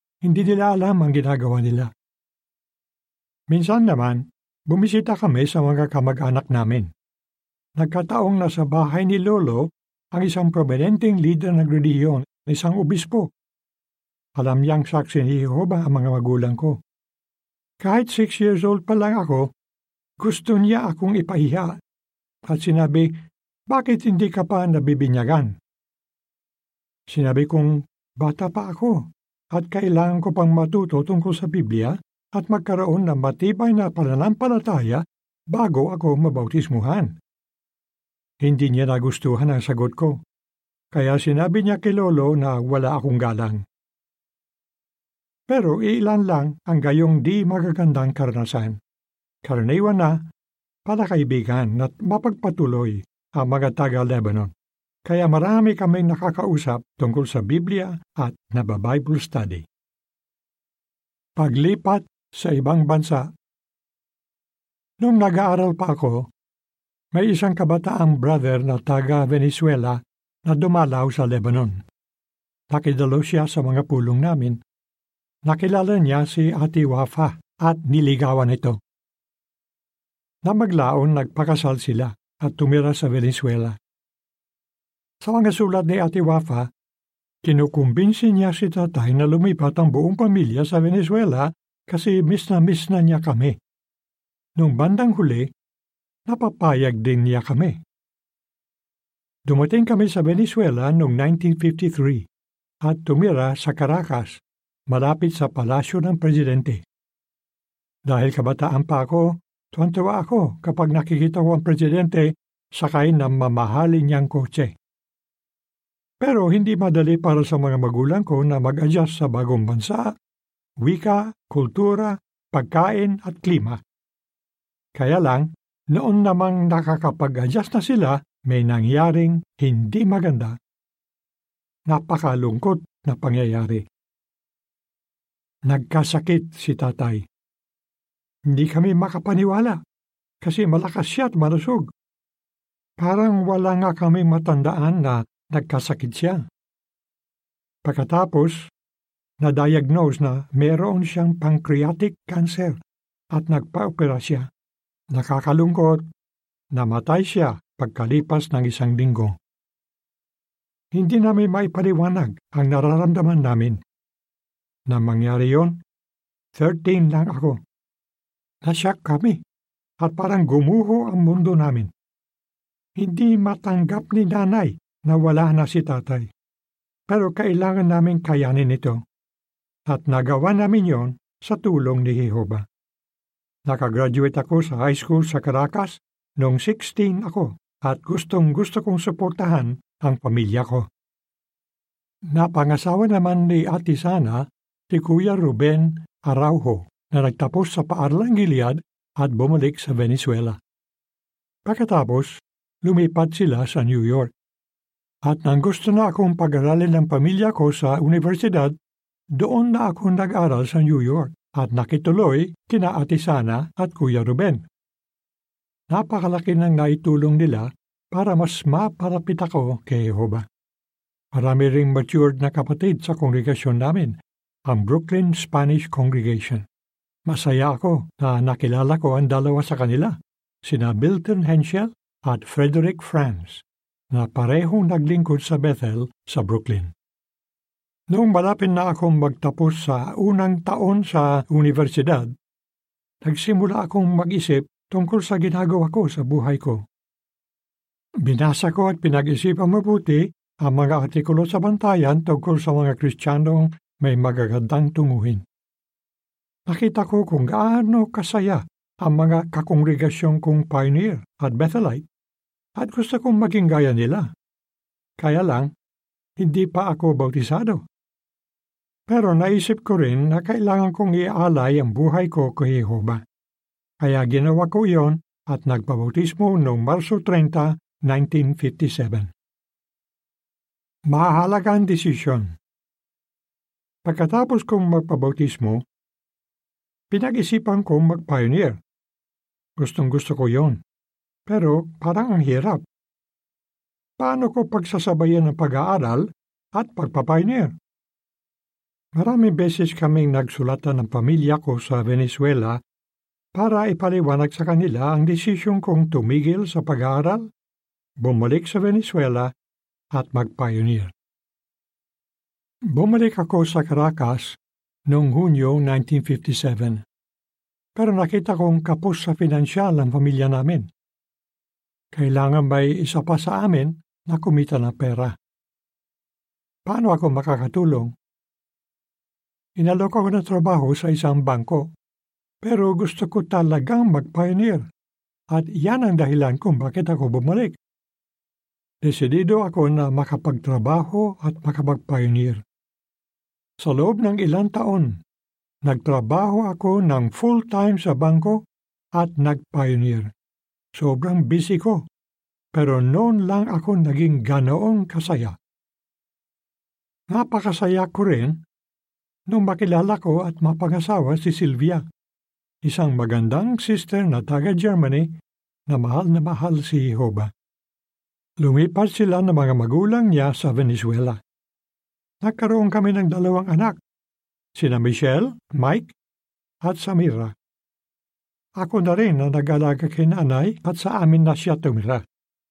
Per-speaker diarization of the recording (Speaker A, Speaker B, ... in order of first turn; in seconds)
Speaker A: 0.2-1.9, 3.5-6.9, 7.8-13.3, 14.4-16.8, 17.8-19.5, 20.2-21.8, 22.5-23.1, 23.7-25.5, 27.1-37.1, 38.4-40.2, 40.9-43.6, 45.5-48.8, 49.5-50.2, 50.9-54.5, 55.1-59.7, 61.4-63.3, 65.0-66.3, 67.1-71.8, 72.7-74.6, 75.5-78.8, 80.5-83.8, 85.2-86.7, 87.4-93.6, 94.6-95.5, 96.3-97.8, 99.5-102.2, 102.8-106.8, 108.0-114.7, 116.2-120.2, 120.8-123.8, 125.0-130.6, 131.9-133.8, 135.7-137.2, 138.5-139.8, 140.4-141.9, 143.0-146.4, 147.8-148.7, 149.4-152.8, 153.3-154.5, 155.1-156.0, 156.7-159.4, 160.9-163.8, 164.9-165.8, 166.6-167.6, 168.6-169.4, 170.0-171.9, 173.0-176.3, 177.1-179.0, 179.9-182.7, 183.7-190.9, 192.3-200.6, 201.7-204.3, 205.2-208.8, 209.3-214.6, 215.9-220.4, 221.3-224.2, 224.7-226.7, 227.3-236.9, 238.1-242.3, 243.2-246.8, 248.2-255.4, 256.7-262.1, 262.8-264.3, 265.2-265.7, 266.4-267.9, 269.1-273.2, 274.0-279.3, 281.1-282.5, 284.1-285.8, 287.1-288.8, 289.8-290.8, 291.5-292.8, 294.2-297.8, 299.1-302.8, 303.5-307.5, 308.2-309.5, 310.1-311.1, 312.9-317.0, 318.0-320.9, 322.1-325.4, 326.9-328.1, 329.8-331.9, 332.6-334.9, 335.5-337.8, 339.0-342.6, 343.8-345.1, 345.9-348.6, 349.1-350.3, 351.0-352.1, 352.7-355.6, 357.3-358.6, 359.5-362.0, 362.8-365.3, 365.9-367.5, 368.6-371.4, 372.4-374.0, 374.8-376.1, 376.8-377.5, 378.8-382.2